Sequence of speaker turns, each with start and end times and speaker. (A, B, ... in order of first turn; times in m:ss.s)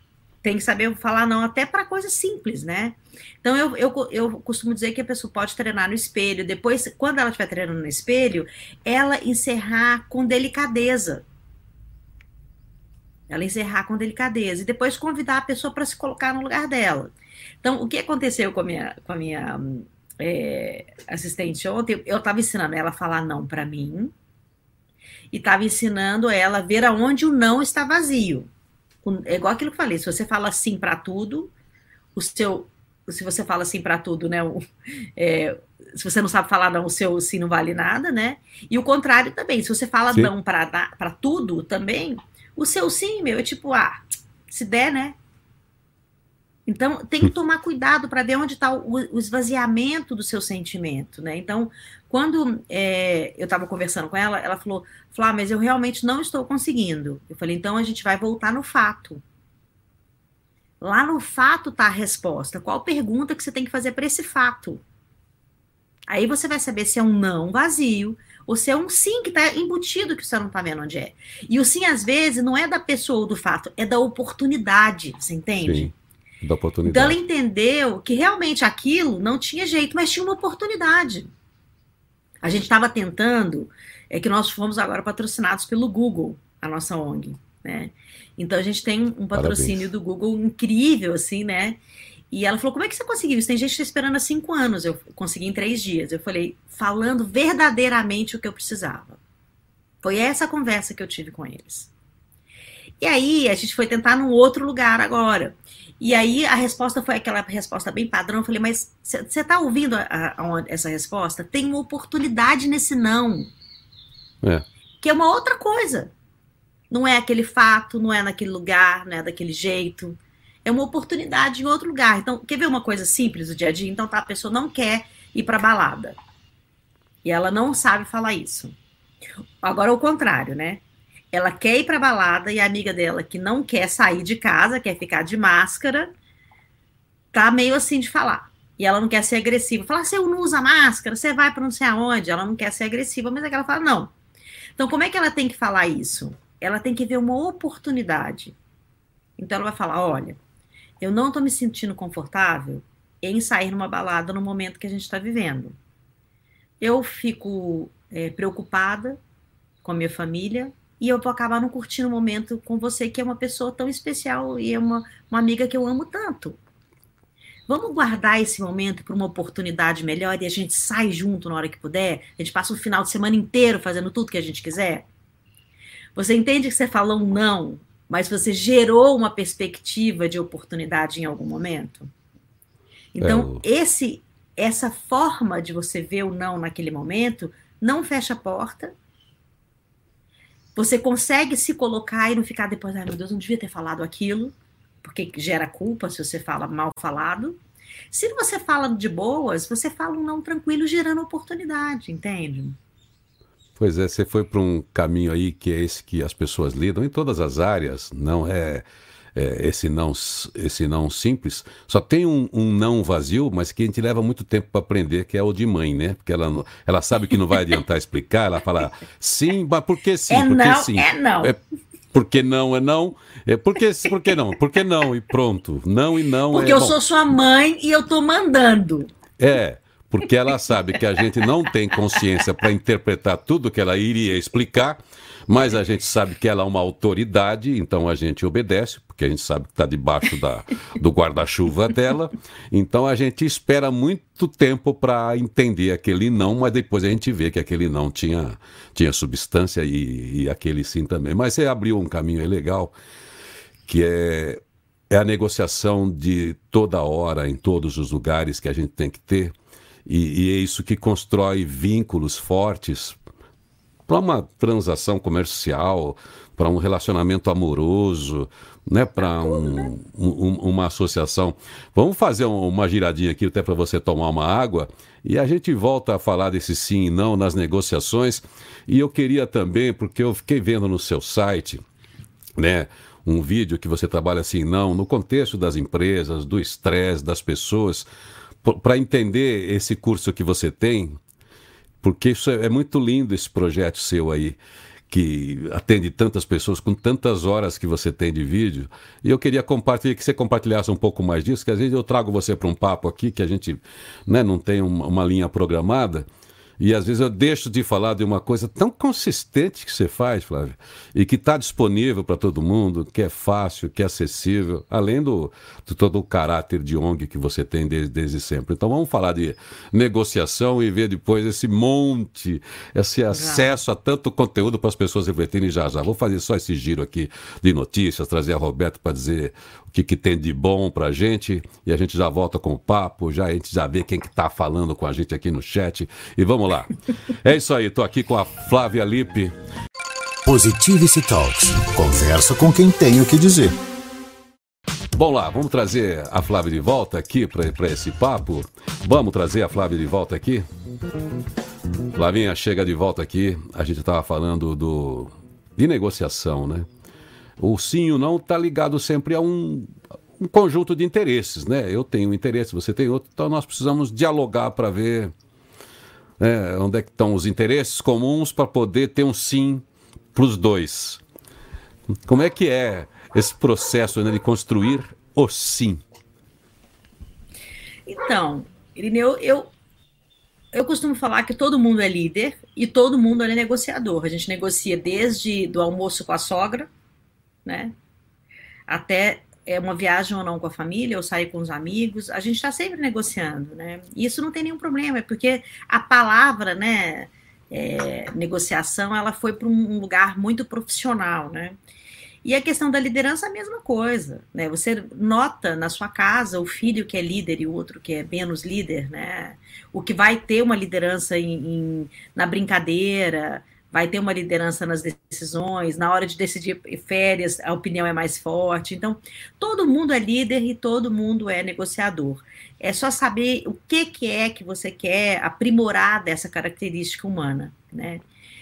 0:00.4-0:11.2 A
0:13.3-0:24.1 A
0:25.3-0:28.5 A
0:29.0-0:31.5 A
0:32.1-0:34.6 A
0:35.2-0:45.2 A
0:46.6-0:59.2 A
1:00.8-1:04.8 A
1:06.1-1:15.9 A
1:15.6-1:17.2 B
1:16.8-1:21.3 A
1:22.4-1:31.8 A
1:29.3-1:29.8 B
1:32.3-1:39.2 A
1:40.0-1:41.9 A
1:43.0-1:53.5 A
1:55.0-1:56.1 A
1:56.9-2:06.2 A
2:07.2-2:08.7 A
2:09.6-2:16.1 A
2:17.3-2:24.1 A
2:24.8-2:28.6 A
2:29.4-2:30.4 A
2:31.0-2:35.8 A
2:36.8-2:39.2 A
2:39.8-2:46.6 A
2:47.7-2:55.0 A
2:56.1-3:02.1 A
3:03.1-3:08.9 A
3:03.2-3:03.6 B
3:10.7-3:17.6 A
3:18.1-3:22.8 A
3:23.8-3:41.6 B
3:40.3-3:41.5 A
3:42.1-3:47.0 B
3:46.5-3:49.1 A
3:49.4-4:12.9 B
4:13.8-4:19.5 B
4:20.0-4:23.2 B
4:24.1-4:41.8 B
4:42.6-4:48.0 B
4:48.6-4:51.2 B
4:52.0-4:54.6 B
4:55.1-5:06.2 B
5:06.8-5:39.5 B
5:23.3-5:23.7 A
5:40.4-5:43.7 C
5:45.2-5:50.6 B
5:52.1-5:56.9 B
5:57.6-6:05.3 B
6:06.4-6:11.2 B
6:12.2-6:16.0 B
6:18.1-6:19.7 A
6:20.7-6:26.9 A
6:27.6-6:27.9 A
6:28.9-6:41.8 A
6:42.4-7:08.2 A